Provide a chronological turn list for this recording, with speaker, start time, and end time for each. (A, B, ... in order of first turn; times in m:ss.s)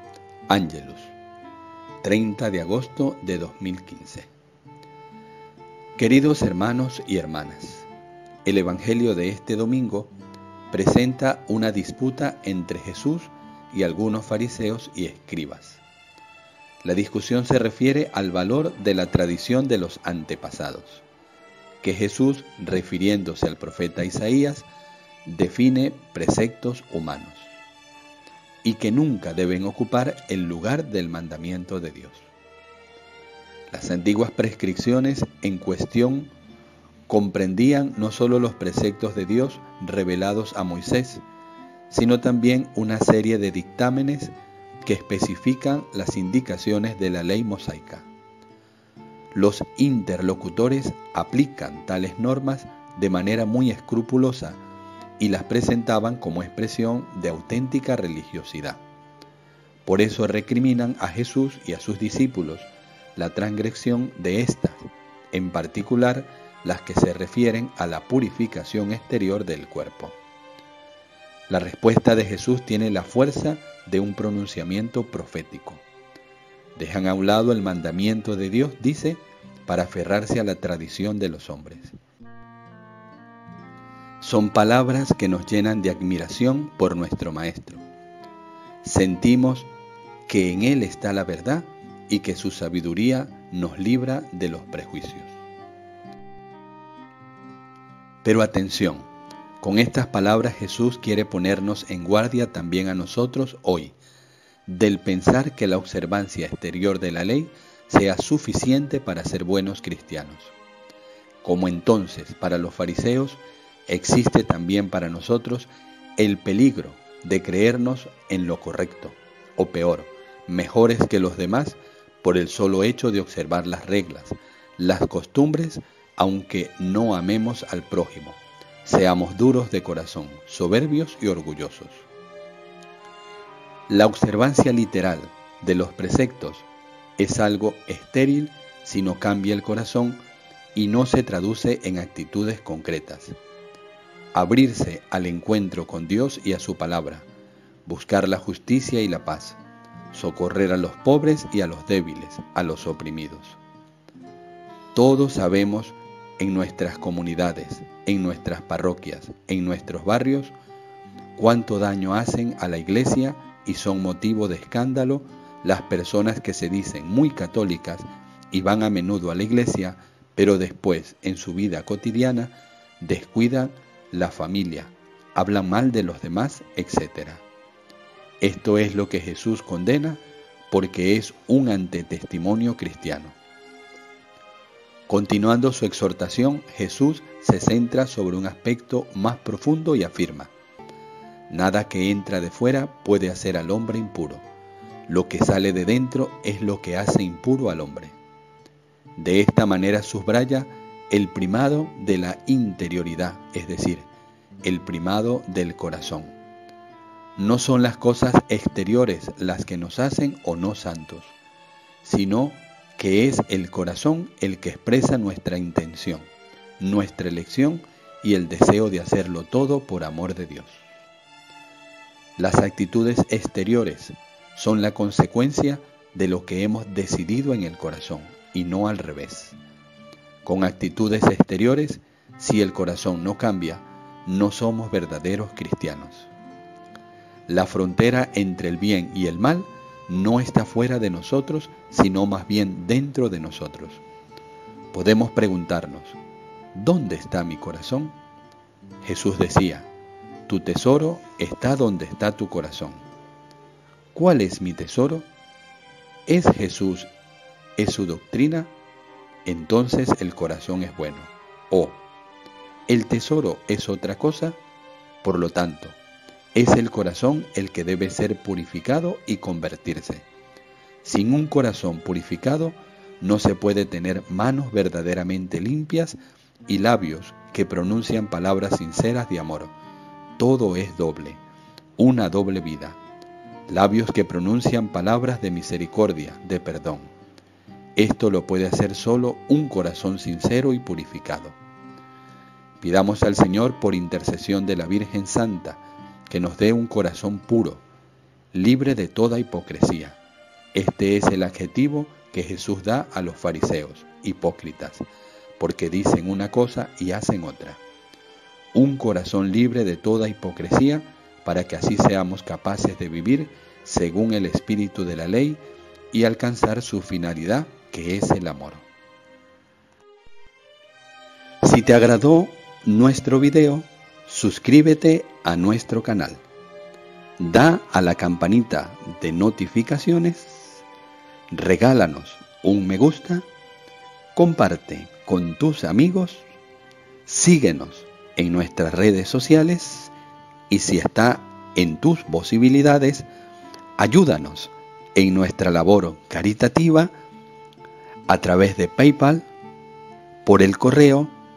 0:00.5-0:01.2 A
0:02.0-0:04.3 A
0:06.0-0:07.9 A
0:08.4-0:10.1 A
0:10.7-0:15.8 A
0:16.8-0:21.0 A
0:21.8-0:24.7 A
0:25.2-0:27.5 A
0:28.6-0:32.3 A
0:33.7-0:36.3 A
0:37.1-0:41.2 A
0:41.9-0:44.3 A
0:44.8-0:48.1 A
0:49.3-0:54.6 A
0:55.2-0:58.8 A
0:59.9-1:10.2 A
1:11.5-1:15.8 A
1:16.8-1:22.0 A
1:24.2-1:27.8 A
1:28.8-1:29.7 A
1:30.3-1:35.4 A
1:38.2-1:39.1 A
1:39.6-1:44.0 A
1:44.7-1:50.5 A
1:51.4-2:12.1 A
2:13.9-2:16.7 A
2:17.2-2:20.2 A
2:20.8-2:23.4 A
2:24.3-2:27.3 A
2:27.9-2:29.6 A
2:30.1-2:33.6 A
2:35.0-2:40.5 A
2:41.4-2:57.4 A
2:58.4-3:03.4 A
3:05.1-3:10.5 A
3:11.5-3:14.4 A
3:15.1-3:18.2 A
3:19.2-3:24.1 A
3:24.6-3:26.4 A
3:27.4-3:31.4 A
3:32.0-3:36.3 A
3:36.8-3:40.9 A
3:42.4-3:49.6 A
3:50.4-3:56.3 A
3:57.5-4:04.0 A
4:04.9-4:06.2 A
4:06.7-4:08.1 A
4:09.0-4:09.9 A
4:10.5-4:13.0 A
4:14.2-4:15.3 A
4:16.3-4:17.1 A
4:17.8-4:18.7 A
4:19.5-4:22.0 A
4:22.9-4:24.6 A
4:25.2-4:26.0 A
4:26.6-4:30.3 A
4:31.0-4:39.7 A
4:40.4-4:41.4 A
4:42.0-4:43.0 A
4:43.7-4:47.1 A
4:48.0-4:51.6 A
4:52.8-4:57.8 A
4:58.5-5:00.2 A
5:00.7-5:05.0 A
5:05.6-5:07.8 A
5:08.7-5:18.9 A
5:21.6-5:26.4 A
5:27.4-5:30.8 A
5:31.5-5:33.5 A
5:34.4-5:36.5 A
5:37.3-5:40.1 A
5:40.7-5:43.3 A
5:44.0-5:47.1 A
5:48.3-5:49.5 A
5:50.4-5:51.3 A